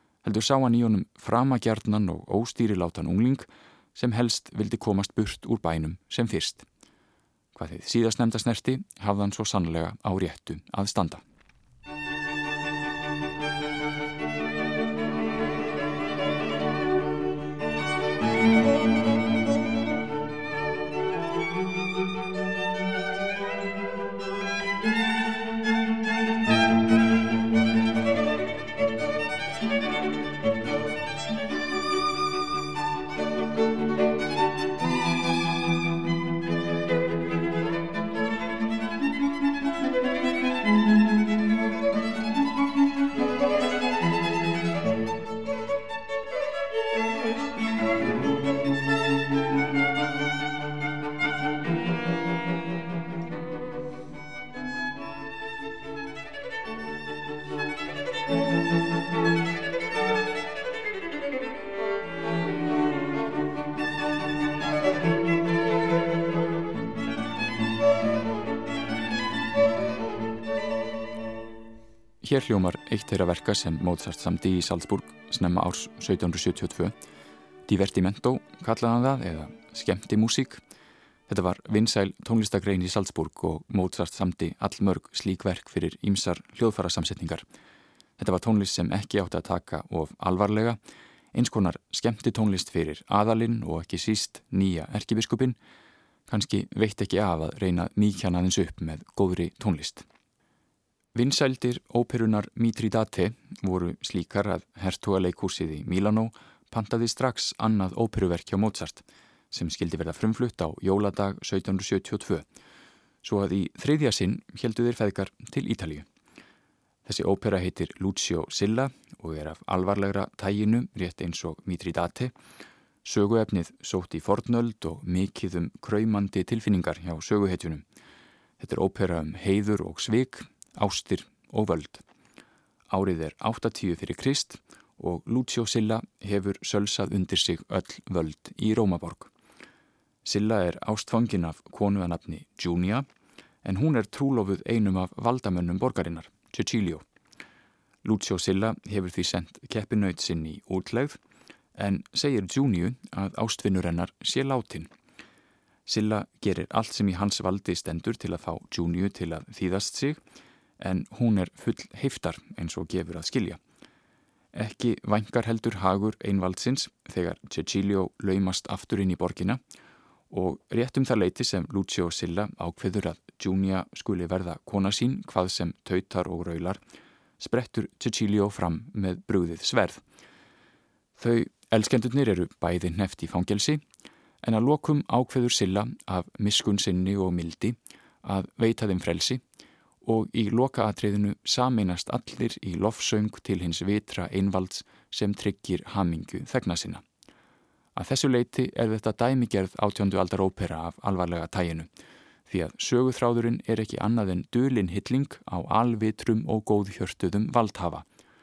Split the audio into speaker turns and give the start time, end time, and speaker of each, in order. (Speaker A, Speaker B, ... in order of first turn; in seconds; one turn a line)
Speaker A: 0.2-6.7
Speaker A: 7.5-11.2
Speaker A: 72.2-76.9
Speaker A: 77.7-80.6
Speaker A: 81.3-87.4
Speaker A: 88.2-90.8
Speaker A: 91.3-95.6
Speaker A: 96.3-100.0
Speaker A: 101.1-112.5
Speaker A: 113.2-116.0
Speaker A: 117.0-122.3
Speaker A: 123.0-127.8
Speaker A: 128.6-132.0
Speaker A: 132.9-139.3
Speaker A: 140.2-143.1
Speaker A: 143.6-147.0
Speaker A: 148.0-151.2
Speaker A: 151.8-154.9
Speaker A: 155.9-160.2
Speaker A: 160.8-163.6
Speaker A: 164.5-169.6
Speaker A: 170.3-176.8
Speaker A: 177.4-180.0
Speaker A: 181.2-183.8
Speaker A: 184.4-189.4
Speaker A: 190.0-197.0
Speaker A: 198.0-201.9
Speaker A: 202.5-208.0